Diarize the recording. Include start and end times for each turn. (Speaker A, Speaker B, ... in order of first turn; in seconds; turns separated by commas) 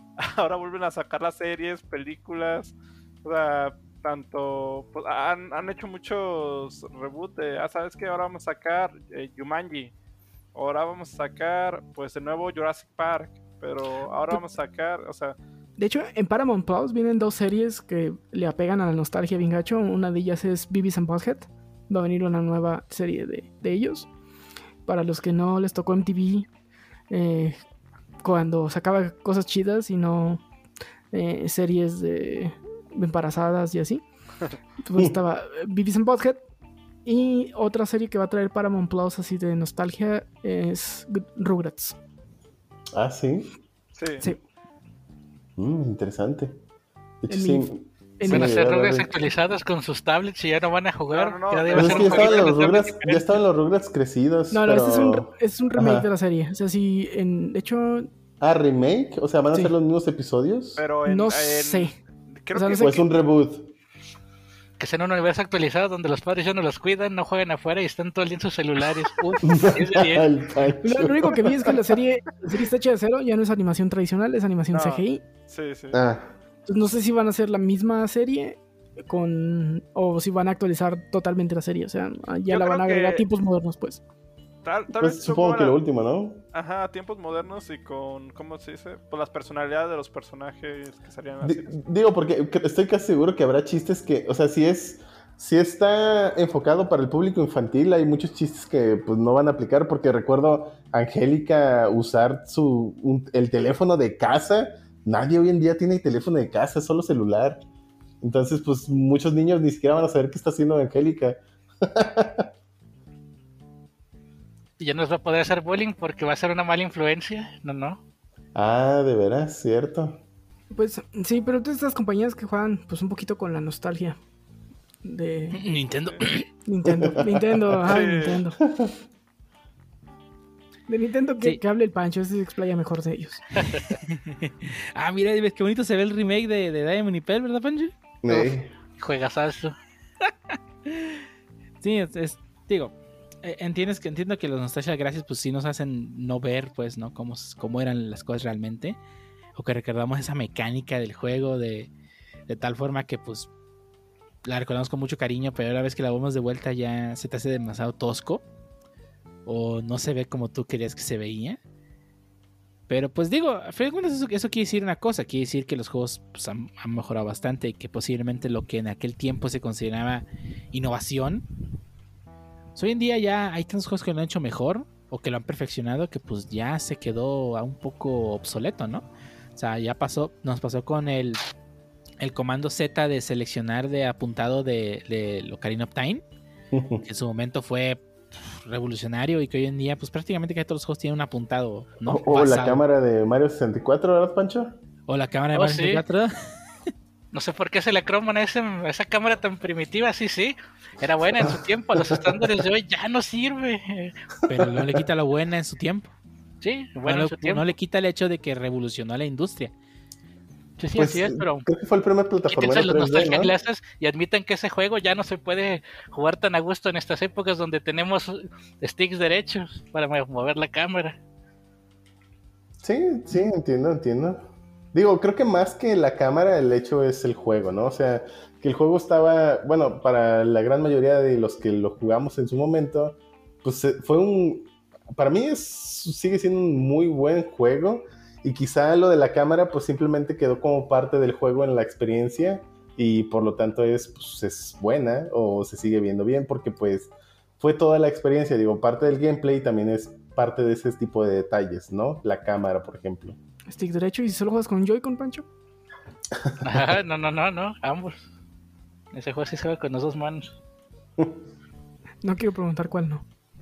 Speaker A: 0.2-9.9, Speaker A: 10.5-15.4, Speaker B: 15.8-24.1, Speaker B: 24.9-26.5, Speaker B: 27.1-27.6, Speaker B: 28.2-30.4, Speaker B: 31.1-34.0, Speaker B: 34.8-36.4, Speaker B: 37.0-42.0, Speaker C: 42.9-43.5, Speaker A: 44.0-44.3, Speaker C: 45.6-46.5, Speaker C: 47.2-49.1, Speaker B: 47.3-48.6, Speaker D: 48.3-53.0, Speaker A: 51.1-53.2, Speaker C: 51.7-56.1, Speaker B: 54.5-58.1, Speaker C: 58.4-60.8, Speaker A: 60.8-63.0, Speaker B: 61.0-61.9, Speaker B: 62.5-63.0, Speaker C: 62.8-63.7, Speaker D: 64.8-70.3, Speaker C: 69.4-71.9, Speaker B: 70.8-75.2, Speaker A: 74.7-76.0, Speaker C: 75.9-76.3, Speaker B: 76.7-84.0, Speaker A: 82.5-83.2, Speaker A: 84.6-85.8, Speaker C: 84.9-86.4, Speaker A: 86.5-91.7, Speaker C: 91.4-107.6, Speaker C: 108.2-112.5, Speaker D: 114.8-118.0, Speaker C: 118.5-120.2, Speaker B: 120.7-124.2, Speaker B: 125.0-125.7, Speaker E: 125.5-126.5, Speaker B: 126.6-128.6, Speaker C: 126.8-127.7, Speaker A: 127.8-128.4, Speaker C: 128.6-128.9, Speaker B: 130.9-133.4, Speaker E: 134.0-137.9, Speaker C: 138.2-138.7, Speaker D: 138.3-139.7, Speaker E: 140.5-141.2, Speaker E: 141.8-149.0, Speaker E: 149.5-151.9, Speaker E: 152.5-153.5, Speaker E: 154.4-158.4, Speaker E: 159.4-161.6, Speaker E: 162.9-171.4, Speaker E: 172.8-181.4, Speaker E: 182.2-186.2, Speaker C: 186.7-187.0, Speaker E: 187.0-192.8, Speaker C: 192.1-194.7, Speaker E: 195.1-196.3, Speaker D: 195.5-196.0, Speaker D: 197.3-204.1, Speaker C: 201.4-202.4, Speaker E: 204.5-206.1, Speaker C: 204.6-205.0, Speaker D: 206.6-207.7, Speaker E: 207.1-209.7, Speaker D: 210.8-211.7, Speaker C: 210.9-213.5, Speaker D: 212.5-221.2, Speaker C: 222.8-253.4, Speaker B: 253.7-255.5, Speaker D: 256.6-258.2, Speaker D: 259.1-260.5, Speaker B: 262.2-263.2